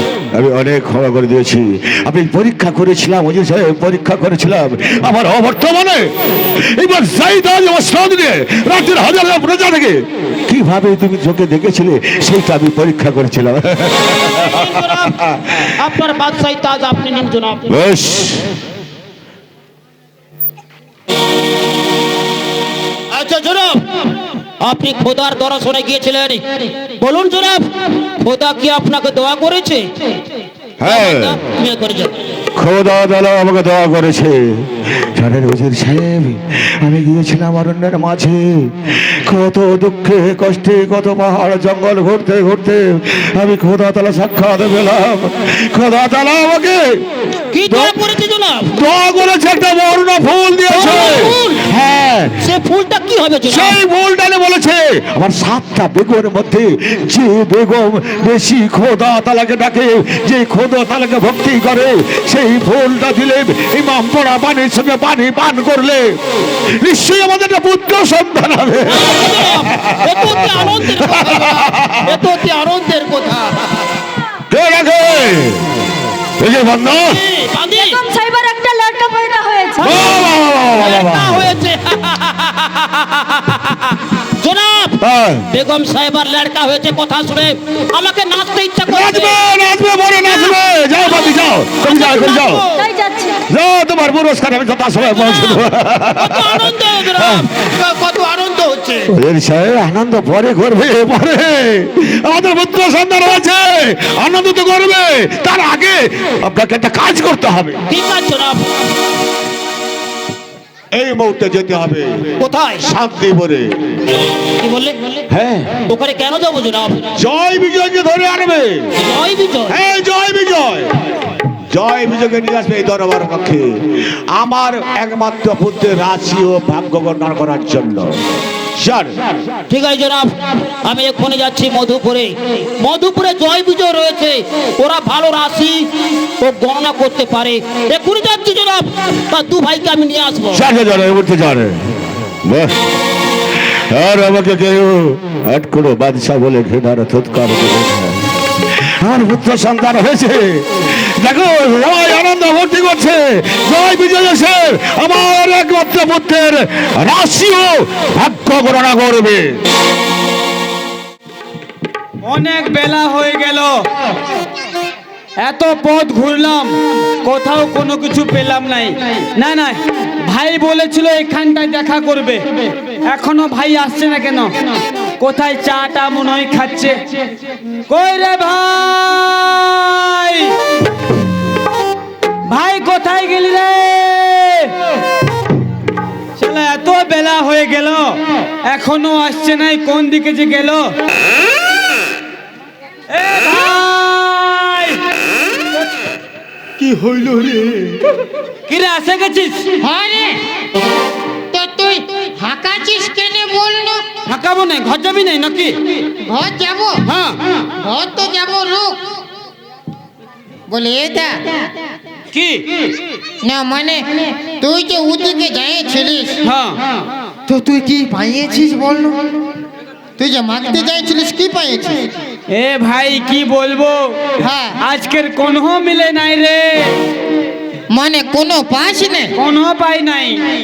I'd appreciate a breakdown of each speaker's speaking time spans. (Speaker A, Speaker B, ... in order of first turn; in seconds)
Speaker A: 0.3-15.7, 17.7-18.5, 30.8-31.4, 32.6-47.0, 47.7-48.0, 48.7-52.4, 53.5-72.2, 74.5-75.7, 76.4-77.2, 79.8-81.5, 85.0-85.5, 88.9-92.6, 93.5-97.5, 99.1-107.8, 110.9-114.0, 115.3-115.8, 117.2-119.0, 119.7-121.0, 121.7-128.2, 128.8-129.2, 140.5-141.9, 142.4-142.8, 143.5-159.6
Speaker B: 14.4-17.8, 23.1-24.0, 24.6-29.9, 30.8-32.2, 47.5-48.7, 50.7-51.6, 52.4-53.8, 68.9-73.6, 77.1-78.0, 80.8-83.8, 84.4-85.0, 85.5-89.4, 91.8-92.7, 95.2-95.6, 96.1-99.1, 107.9-108.7, 112.4-112.9, 114.6-115.2, 115.9-117.2, 119.0-119.8, 129.7-135.8, 136.4-140.7
Speaker C: 77.7-79.9, 92.6-93.4
Speaker D: 162.2-163.8, 165.4-172.4, 173.1-174.5, 175.2-177.0, 177.9-180.6, 182.5-184.7, 186.4-188.2, 188.7-190.9, 193.1-195.0, 198.7-199.6, 204.3-205.8, 207.1-207.4, 212.3-212.9, 216.4-216.8, 222.5-226.9, 229.4-230.5
Speaker E: 196.8-197.9, 199.8-200.4, 201.5-204.0, 206.2-207.0, 207.8-209.0, 210.7-211.4, 213.4-216.4, 217.5-219.2, 220.2-222.0, 224.4-224.8, 227.9-229.3